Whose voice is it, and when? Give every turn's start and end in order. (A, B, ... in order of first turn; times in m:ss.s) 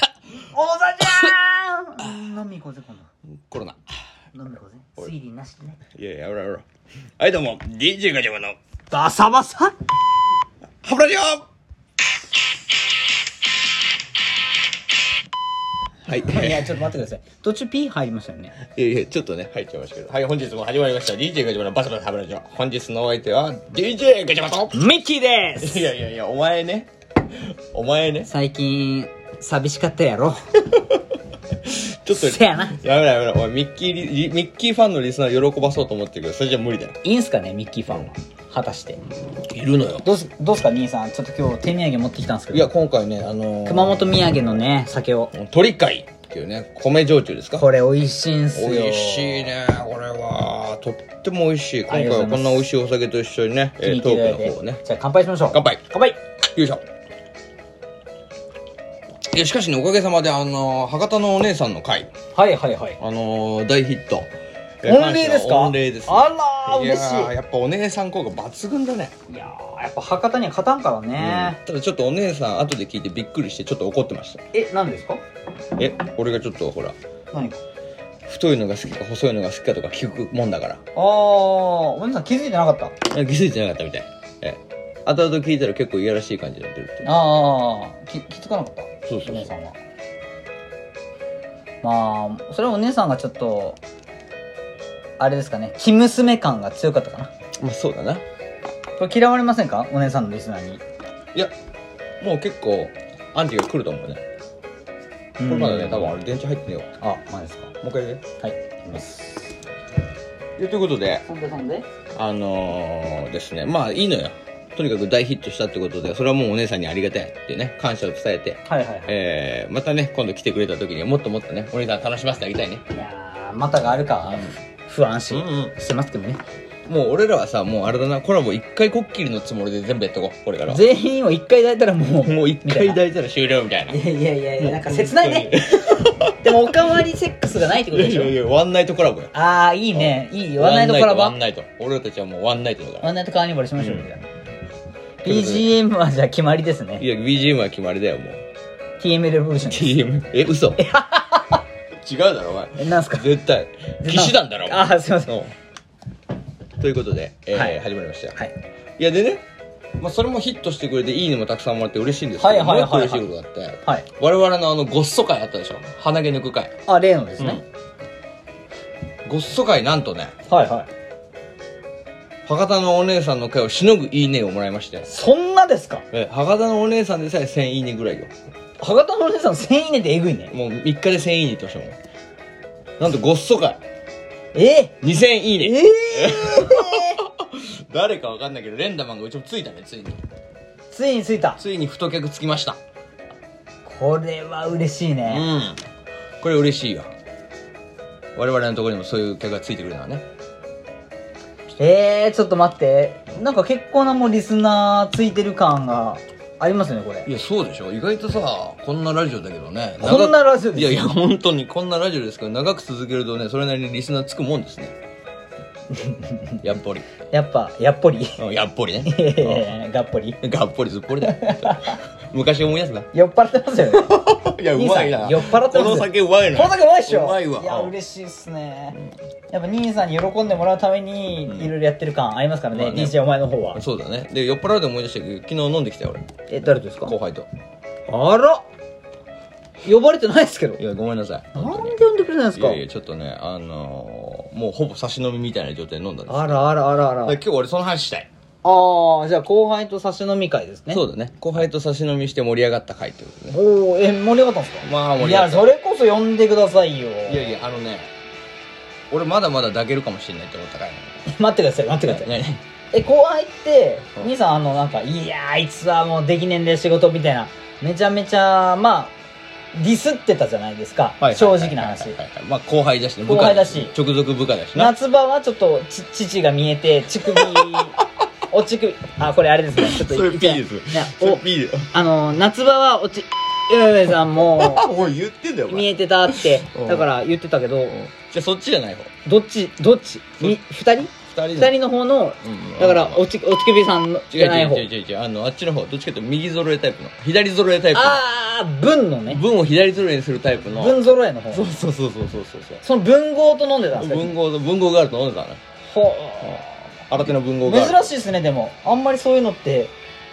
0:00.5-0:03.1 A
0:03.5-0:03.8 B
0:04.3-0:05.8 A
0:05.9-0:06.6 B
0:07.2-0:08.6 B
0:08.9-0:09.7 A
0:10.8-0:11.4 B
0:16.1-0:16.7 B
0:16.2-0:18.5 A
0:18.6-0:24.8 B
0:24.7-0:25.8 A
0:25.6-0:28.3 B
0:28.2-0:30.4 A
0:30.7-0:31.0 B
0:31.6-0:37.0 B
0:32.1-0:32.8 A
0:37.0-0:39.0 A
0:39.4-0:40.0 B
0:40.0-0:42.7 A
0:42.5-0:44.5 B
0:43.6-0:45.3 A
0:45.3-0:47.6 B
0:47.6-0:49.5 A
0:48.5-0:54.8 B
0:51.9-0:52.6 A
0:53.8-0:56.2 A
0:55.5-0:55.8 B
0:56.5-0:56.8 B
0:59.3-1:02.1 B
1:02.3-1:03.0 A
1:03.0-1:04.3 B
1:04.8-1:09.1 B
1:04.8-1:07.3 A
1:09.3-1:11.6 A
1:11.2-1:14.4 B
1:14.5-1:15.2 A
1:15.8-1:17.0 B
1:17.3-1:17.6 A
1:18.2-1:20.8 B
1:20.9-1:22.9 A
1:23.0-1:27.1 B
1:27.0-1:29.8 A
1:29.1-1:29.5 B
1:31.8-1:33.8 A
1:35.2-1:37.3 A
1:37.6-1:38.2 B
1:39.0-1:40.8 A
1:42.2-1:44.2 B
1:45.4-1:46.2 A
1:45.5-1:46.9 B
1:47.0-1:47.7 A
1:47.8-1:48.2 B
1:48.4-1:49.5 A
1:50.6-1:51.2 B
1:51.3-1:51.9 A
1:52.1-2:02.8 B
1:58.7-1:59.1 A
2:02.9-2:06.4 A
2:04.0-2:04.5 B
2:05.3-2:05.7 B
2:06.8-2:10.8 B
2:10.7-2:13.0 A
2:12.2-2:14.0 B
2:13.9-2:15.6 A
2:14.6-2:16.5 B
2:16.4-2:18.4 A
2:17.8-2:19.3 B
2:19.3-2:21.4 A
2:19.9-2:23.1 B
2:23.0-2:24.2 A
2:23.8-2:24.0 B
2:25.2-2:25.7 B
2:25.2-2:27.0 A
2:27.0-2:28.4 B
2:29.0-2:30.0 A
2:29.6-2:30.8 B
2:30.8-2:31.6 A
2:32.0-2:35.5 B
2:32.8-2:33.3 A
2:34.0-2:35.4 A
2:36.8-2:38.4 B
2:37.5-2:37.8 A
2:39.0-2:39.4 B
2:40.0-2:46.7 B
2:42.4-2:43.3 A
2:46.9-2:47.6 A
2:47.4-2:47.6 B
2:49.2-2:50.3 B
2:50.5-2:50.9 A
2:52.4-2:55.1 B
2:55.1-2:56.0 A
2:56.1-2:58.3 B
2:58.8-3:00.5 A
3:00.5-3:02.0 B
3:03.0-3:03.8 B
3:04.5-3:05.0 A
3:05.0-3:10.2 B
3:05.6-3:07.2 A
3:10.9-3:11.6 A
3:11.6-3:12.8 B
3:13.8-3:15.5 A
3:15.2-3:15.8 B
3:16.4-3:17.1 B
3:18.4-3:20.2 B
3:21.8-3:27.3 A
3:27.2-3:34.9 B
3:30.0-3:31.1 A
3:35.9-3:36.6 A
3:36.6-3:37.1 B
3:37.3-3:38.4 A
3:38.4-3:39.7 B
3:39.0-3:40.4 A
3:40.4-3:43.1 B
3:41.2-3:42.0 A
3:43.1-3:44.2 A
3:43.9-3:47.9 B
3:44.7-3:49.0 A
3:49.5-3:53.8 A
3:51.4-3:51.7 B
3:52.7-3:53.2 B
3:53.7-3:56.2 B
3:56.5-3:57.1 A
3:57.0-3:57.5 B
3:58.1-3:58.6 A
3:59.8-4:00.8 A
4:00.8-4:02.0 B
4:01.5-4:02.8 A
4:02.5-4:08.3 B
4:06.3-4:07.4 A
4:08.6-4:11.0 A
4:10.9-4:13.6 B
4:13.5-4:17.5 A
4:14.8-4:15.7 B
4:17.3-4:18.1 B
4:19.1-4:21.1 B
4:21.2-4:22.3 A
4:22.1-4:22.6 B
4:22.9-4:29.1 A
4:29.7-4:32.2 A
4:31.2-4:34.9 B
4:33.2-4:33.9 A
4:34.7-4:44.9 A
4:37.3-4:37.8 B
4:39.8-4:41.9 B
4:44.5-4:47.1 B
4:45.7-4:48.0 A
4:47.9-4:49.1 B
4:49.2-4:54.9 A
4:51.3-4:51.8 B
4:52.4-4:53.2 B
4:54.3-4:58.2 B
4:57.9-4:59.4 A
4:59.3-5:01.0 B
5:00.7-5:01.6 A
5:01.5-5:02.8 B
5:02.8-5:04.3 A
5:04.0-5:05.6 B
5:05.9-5:09.9 A
5:06.4-5:08.0 B